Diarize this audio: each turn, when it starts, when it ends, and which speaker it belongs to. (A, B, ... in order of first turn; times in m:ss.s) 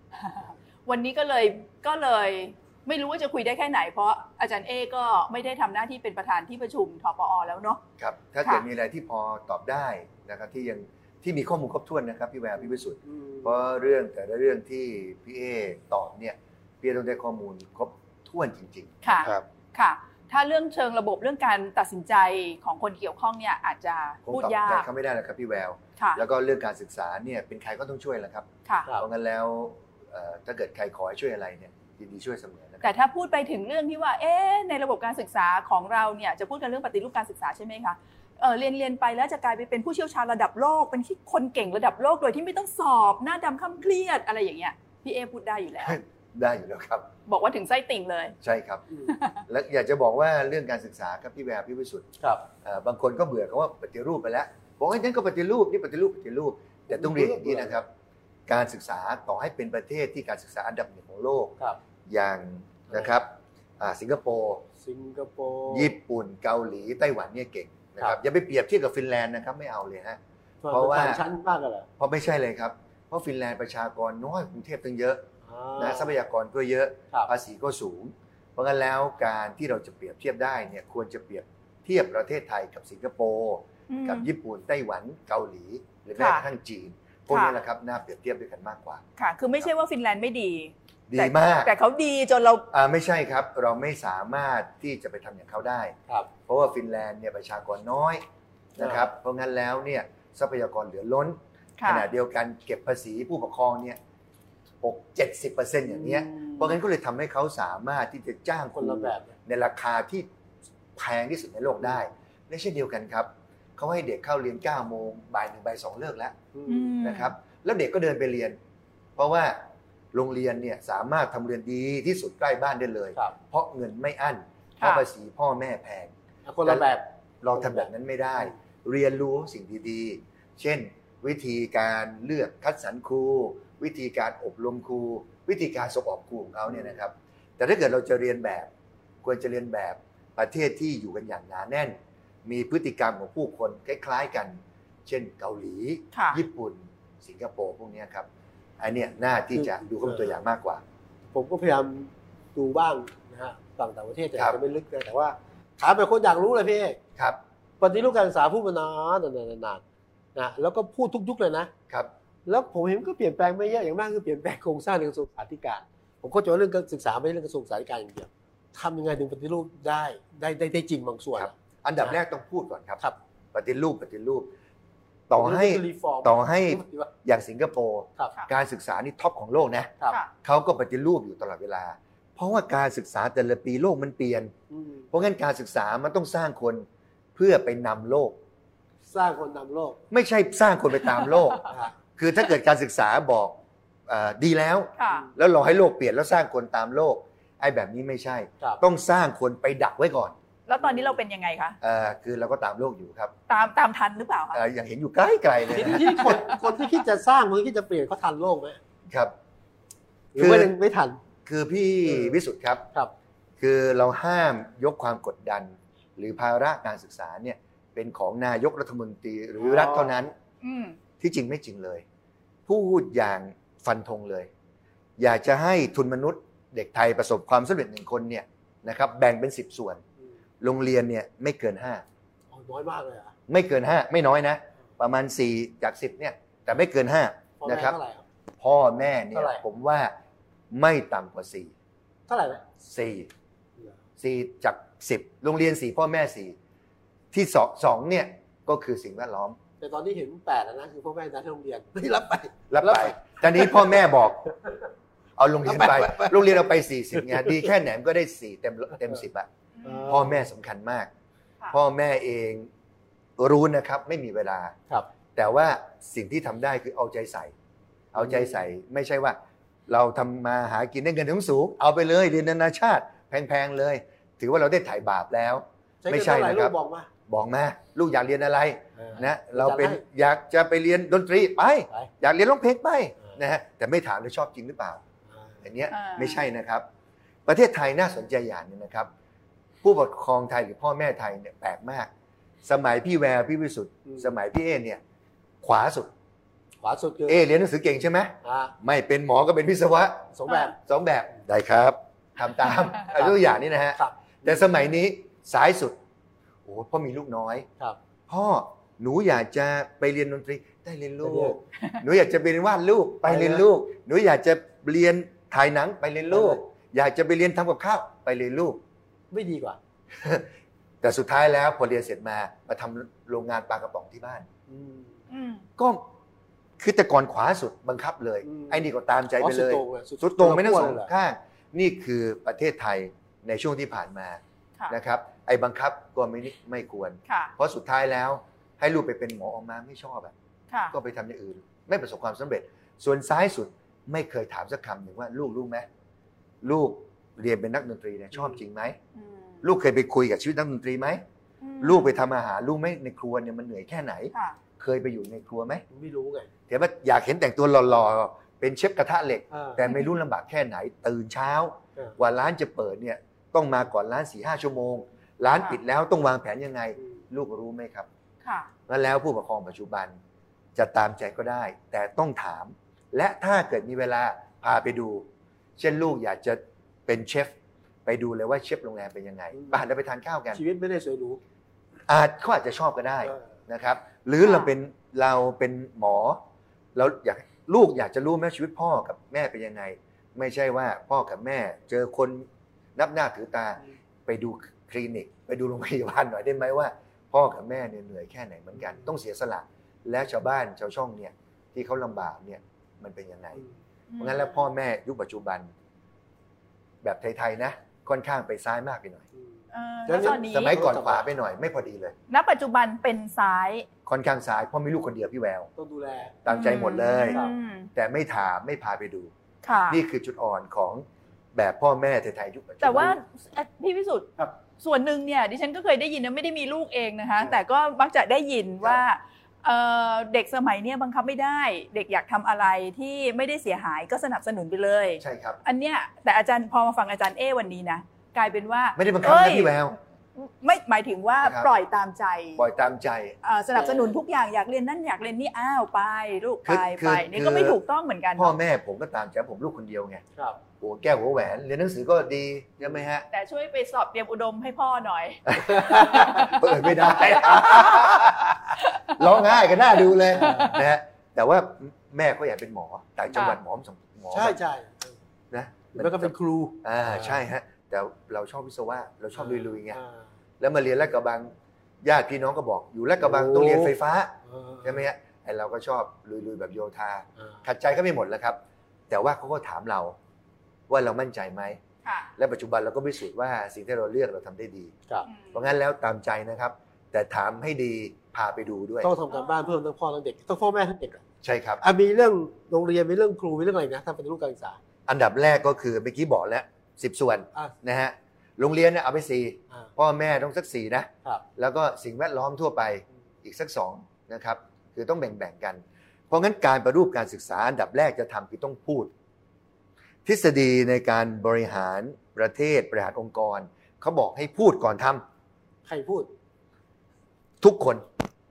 0:00.1-0:07.8 A
0:08.0-0:19.4 B
0:13.0-0:13.5 C
0:19.0-0:24.9 A
0:24.2-0:28.5 B
0:29.0-0:32.9 B
0:32.8-0:46.0 A
0:45.8-0:47.1 B
0:47.3-0:48.3 A
0:48.4-0:48.8 B
0:49.1-0:49.4 A
0:49.5-0:57.9 B
0:52.2-0:52.4 C
0:56.9-0:57.8 C
0:58.5-1:04.6 B
1:04.8-1:05.9 C
1:05.7-1:10.2 B
1:10.6-1:11.9 C
1:10.7-1:11.2 B
1:12.0-1:15.2 B
1:15.4-1:16.1 C
1:15.8-1:29.0 B
1:23.9-1:24.3 A
1:26.2-1:26.4 A
1:27.3-1:27.6 A
1:29.2-1:32.7 A
1:31.1-1:31.7 B
1:32.7-1:35.9 B
1:36.5-1:38.2 B
1:38.8-1:44.0 B
1:38.8-1:39.1 C
1:41.8-1:42.0 A
1:44.8-1:50.3 B
1:45.9-1:46.7 C
1:48.8-1:49.3 C
1:51.0-1:56.4 B
1:56.5-1:56.9 C
1:56.7-1:57.3 A
1:57.0-1:58.6 B
1:59.2-1:59.6 B
2:00.1-2:06.1 B
2:06.4-2:07.9 C
2:06.6-2:06.9 B
2:07.4-2:18.7 B
2:16.7-2:16.9 C
2:19.2-2:28.3 B
2:26.1-2:26.4 A
2:28.8-2:30.8 B
2:29.5-2:30.2 C
2:31.3-2:37.0 C
2:37.8-2:39.8 C
2:40.3-2:41.7 C
2:42.4-2:52.2 C
2:51.4-2:53.0 B
2:53.5-2:54.5 B
2:55.3-2:59.9 B
2:55.3-2:57.1 C
3:00.4-3:04.5 B
3:04.7-3:05.1 C
3:05.1-3:08.4 B
3:09.1-3:10.0 C
3:10.1-3:20.4 B
3:11.0-3:11.6 A
3:11.7-3:11.9 C
3:15.0-3:15.3 A
3:20.7-3:21.8 A
3:21.8-3:23.3 B
3:23.5-3:24.6 A
3:24.5-3:26.4 B
3:25.7-3:28.8 C
3:26.2-3:26.6 A
3:30.3-3:31.2 C
3:30.4-3:30.7 B
3:31.4-3:32.8 B
3:33.6-3:40.3 B
3:39.6-3:40.1 C
3:40.6-3:41.0 A
3:41.2-3:42.0 B
3:42.7-3:44.5 B
3:45.2-3:50.0 B
3:50.6-3:52.0 B
3:52.5-3:53.3 C
3:53.5-3:58.0 B
3:57.6-3:58.2 C
3:58.6-4:00.1 B
3:59.3-3:59.6 C
4:00.7-4:01.7 B
4:02.3-4:02.6 C
4:02.8-4:03.3 B
4:04.2-4:06.6 B
4:07.3-4:09.6 B
4:09.8-4:14.0 C
4:12.7-4:14.5 B
4:15.4-4:19.5 B
4:15.6-4:16.6 C
4:17.1-4:17.6 C
4:19.8-4:20.2 A
4:19.8-4:20.4 C
4:20.0-4:21.1 B
4:21.7-4:22.7 B
4:23.4-4:24.7 B
4:25.3-4:27.5 B
4:28.1-4:36.7 B
4:28.2-4:28.5 C
4:36.0-4:37.1 C
4:37.3-4:45.0 B
4:39.0-4:40.0 C
4:45.3-4:45.6 C
4:45.6-4:46.8 B
4:45.9-4:46.4 A
4:47.4-4:49.1 B
4:49.8-4:52.1 B
4:52.6-4:55.0 B
4:55.6-4:56.1 B
4:56.8-4:57.4 C
4:57.3-5:06.0 B
4:58.4-4:58.7 C
5:00.3-5:00.8 C
5:02.4-5:03.1 A
5:03.1-5:03.4 C
5:03.9-5:04.6 C
5:06.6-5:07.7 B
5:08.3-5:18.8 B
5:11.2-5:11.6 C
5:13.2-5:13.6 C
5:16.3-5:16.6 C
5:19.3-5:19.8 C
5:20.2-5:20.5 B
5:21.0-5:24.4 B
5:24.7-5:25.2 C
5:25.3-5:25.6 A
5:25.8-5:26.1 B
5:26.8-5:40.3 B
5:28.4-5:28.9 C
5:29.4-5:31.1 C
5:37.3-5:37.5 A
5:40.9-5:45.8 B
5:46.6-5:49.0 B
5:49.1-5:49.6 A
5:49.6-5:51.2 B
5:51.6-5:52.1 A
5:51.8-5:55.8 B
5:55.9-5:56.5 C
5:56.7-6:08.1 B
5:59.5-5:59.8 C
6:08.4-6:08.7 A
6:08.9-6:10.2 B
6:10.8-6:17.5 B
6:18.0-6:20.6 B
6:19.5-6:19.8 C
6:20.5-6:21.4 C
6:22.1-6:26.4 B
6:24.4-6:24.7 A
6:26.9-6:43.6 B
6:44.1-6:44.6 A
6:44.2-6:45.7 B
6:47.0-6:49.2 B
6:49.7-6:50.8 A
6:50.1-6:51.2 C
6:50.1-6:52.2 B
6:52.3-6:53.8 A
6:54.0-6:55.7 B
6:55.8-6:56.4 C
6:56.4-6:57.4 B
6:56.5-6:57.9 A
6:57.9-6:59.3 B
6:59.6-7:00.0 A
6:59.9-7:03.2 B
7:02.8-7:22.6 A
7:15.2-7:15.6 B
7:19.0-7:20.0 B
7:21.4-7:21.7 B
7:22.6-7:23.4 B
7:23.4-7:28.5 A
7:23.7-7:24.1 C
7:26.6-7:27.8 B
7:28.4-7:30.2 B
7:30.8-7:33.2 B
7:33.3-7:36.6 A
7:35.5-7:44.6 B
7:37.4-7:38.3 A
7:38.8-7:39.2 A
7:40.1-7:40.8 A
7:40.4-7:40.8 C
7:43.3-7:43.6 A
7:44.3-7:45.2 C
7:45.5-7:50.0 B
7:45.9-7:47.4 C
7:49.3-7:50.2 C
7:50.6-7:58.6 B
7:53.2-7:55.0 C
7:59.1-8:00.2 B
8:00.9-8:01.8 B
8:02.0-8:02.3 A
8:02.4-8:04.9 B
8:05.3-8:05.6 A
8:05.5-8:09.1 B
8:09.0-8:11.2 C
8:11.4-8:11.8 B
8:11.8-8:14.8 C
8:15.1-8:29.1 B
8:30.2-8:35.2 B
8:35.8-8:36.3 C
8:37.6-8:38.1 B